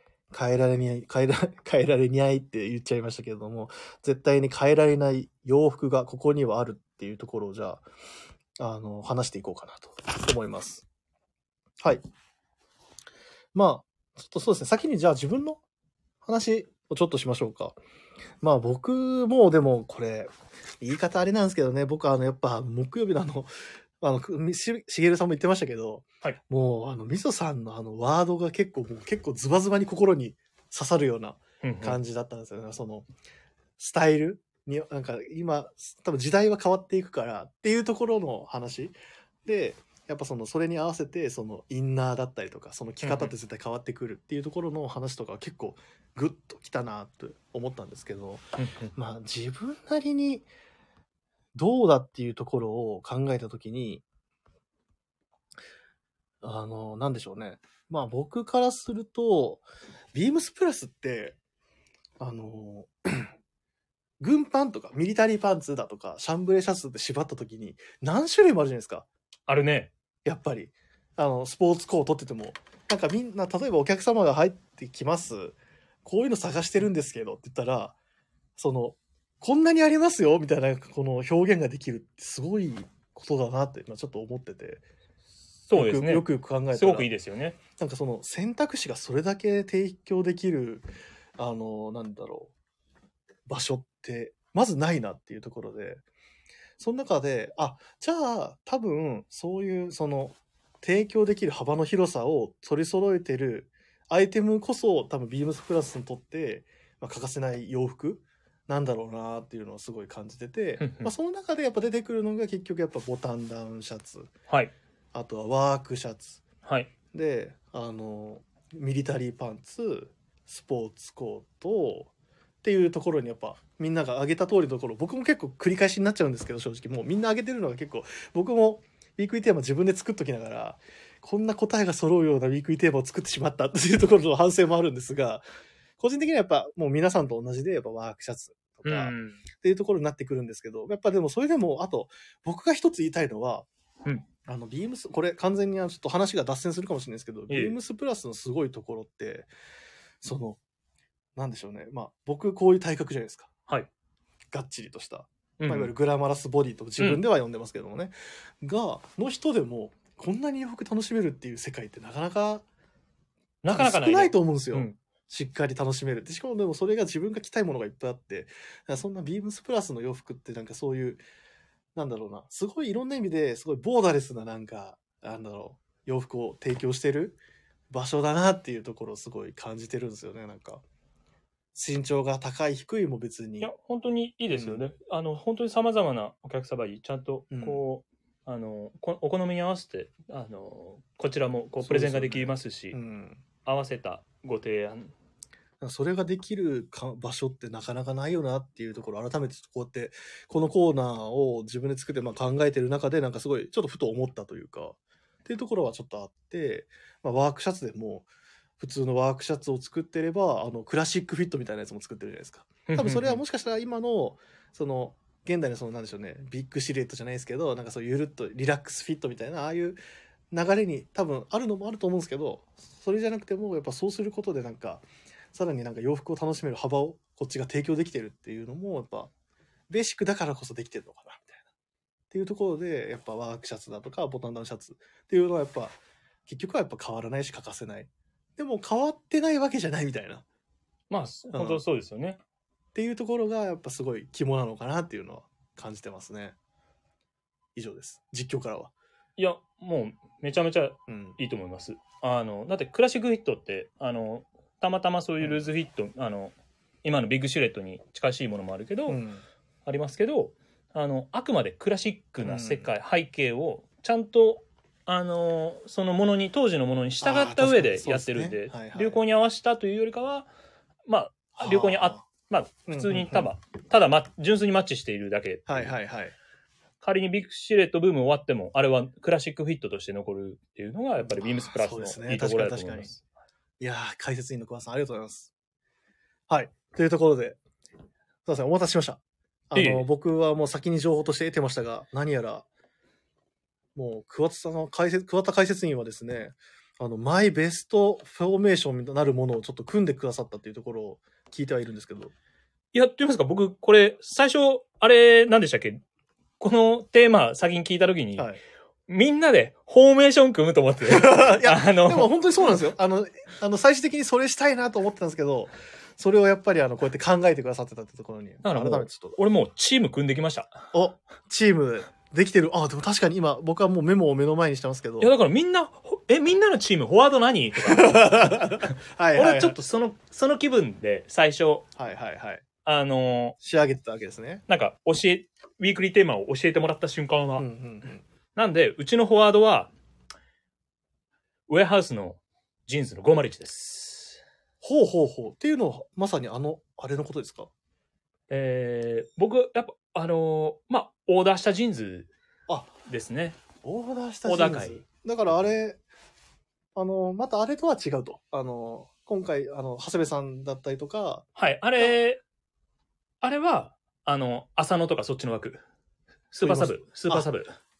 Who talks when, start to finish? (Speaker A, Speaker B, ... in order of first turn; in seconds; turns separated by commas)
Speaker A: 0.3-7.8, Speaker A: 8.6-10.8, Speaker A: 13.5-15.6, Speaker A: 16.2-17.8, Speaker A: 18.4-23.5, Speaker A: 24.0-33.1, Speaker B: 31.6-32.0, Speaker A: 33.8-38.9, Speaker A: 39.5-48.4, Speaker B: 43.0-43.3, Speaker B: 48.6-48.9, Speaker A: 48.9-50.5, Speaker A: 51.5-54.0, Speaker A: 56.4-61.4, Speaker A: 62.2-63.3, Speaker A: 64.2-69.1, Speaker B: 69.5-69.9, Speaker A: 70.2-78.0, Speaker A: 78.6-84.8, Speaker B: 85.7-87.6, Speaker A: 85.7-87.1, Speaker A: 87.8-90.9, Speaker A: 91.4-92.5, Speaker A: 93.5-96.0, Speaker A: 96.8-114.3, Speaker B: 110.8-111.1, Speaker A: 115.1-116.4, Speaker B: 116.7-116.9, Speaker A: 117.1-122.1, Speaker A: 122.6-135.5, Speaker A: 136.0-143.7, Speaker B: 138.8-139.4, Speaker A: 144.5-149.5, Speaker B: 147.5-147.8, Speaker A: 150.2-150.6, Speaker A: 151.4-153.5, Speaker A: 154.5-162.6, Speaker B: 155.6-155.9, Speaker B: 163.6-165.0, Speaker A: 163.7-171.2, Speaker A: 171.9-177.4, Speaker A: 177.9-180.8, Speaker A: 181.7-183.7, Speaker B: 183.6-193.0, Speaker A: 184.5-184.8, Speaker A: 187.5-187.8, Speaker A: 191.8-193.4, Speaker B: 193.7-195.1, Speaker A: 195.8-208.3, Speaker A: 208.8-220.0, Speaker B: 212.9-213.4, Speaker A: 220.5-229.3, Speaker A: 229.9-231.6, Speaker A: 232.3-240.4, Speaker B: 241.1-242.4, Speaker A: 241.5-241.8, Speaker A: 242.9-246.6, Speaker A: 247.8-248.9, Speaker B: 249.4-259.2, Speaker A: 251.1-251.4, Speaker A: 259.1-259.4, Speaker B: 259.9-270.5, Speaker A: 262.4-262.9, Speaker A: 267.2-269.2, Speaker B: 271.1-275.9, Speaker A: 271.6-272.2, Speaker A: 272.9-273.5, Speaker A: 275.7-276.3, Speaker B: 277.0-283.2, Speaker A: 281.2-283.1, Speaker A: 283.8-285.5, Speaker A: 286.5-287.6, Speaker A: 288.5-292.6, Speaker B: 289.7-290.1, Speaker A: 293.9-302.3, Speaker B: 302.9-306.0, Speaker B: 306.6-308.5, Speaker B: 309.1-312.3, Speaker A: 311.1-319.4, Speaker B: 318.6-320.8, Speaker A: 320.9-325.3, Speaker B: 325.2-331.9, Speaker A: 327.8-329.8, Speaker A: 332.0-332.6, Speaker B: 332.9-333.6, Speaker A: 333.6-334.6, Speaker B: 334.7-337.7, Speaker A: 337.6-338.2, Speaker B: 338.6-339.9, Speaker B: 341.7-344.4, Speaker A: 344.8-347.7, Speaker B: 348.5-352.3, Speaker B: 353.1-353.6, Speaker A: 353.8-356.0, Speaker B: 354.5-355.0, Speaker A: 356.9-361.4, Speaker B: 361.6-362.4, Speaker B: 363.4-365.8, Speaker B: 366.5-367.7, Speaker A: 366.6-367.5